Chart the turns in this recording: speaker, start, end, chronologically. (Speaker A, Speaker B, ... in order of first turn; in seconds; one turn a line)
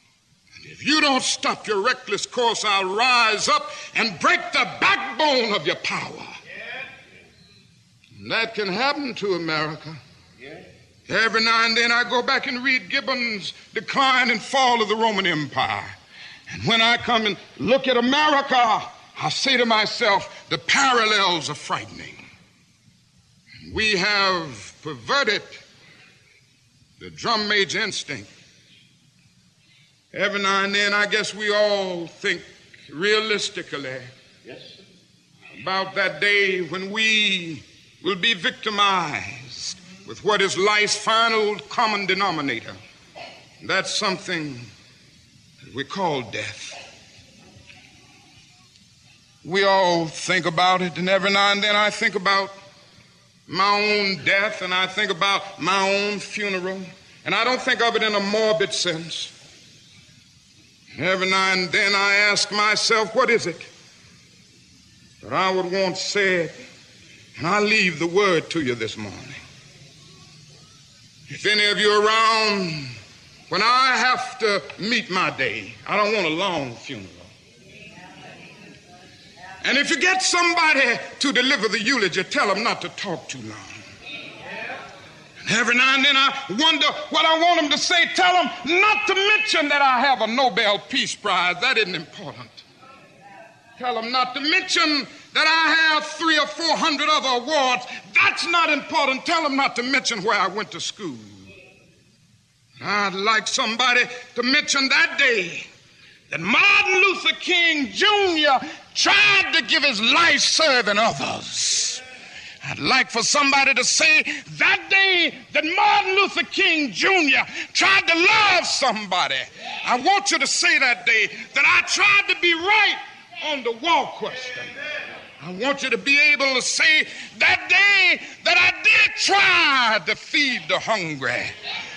Speaker A: 0.6-6.3
Speaker A: 8.2-10.0
Speaker A: 11.1-15.9
Speaker A: 16.5-22.2
Speaker A: 23.6-25.6
Speaker A: 27.0-28.3
Speaker A: 30.1-34.1
Speaker A: 35.6-42.8
Speaker A: 43.6-44.7
Speaker A: 45.7-46.8
Speaker A: 49.4-52.5
Speaker A: 53.5-59.3
Speaker A: 61.0-63.7
Speaker A: 65.2-66.5
Speaker A: 67.4-69.4
Speaker A: 71.3-72.9
Speaker A: 73.5-77.3
Speaker A: 79.6-83.8
Speaker A: 85.5-92.6
Speaker A: 93.8-101.4
Speaker A: 102.8-105.7
Speaker A: 106.3-112.0
Speaker A: 112.6-124.7
Speaker A: 125.4-131.5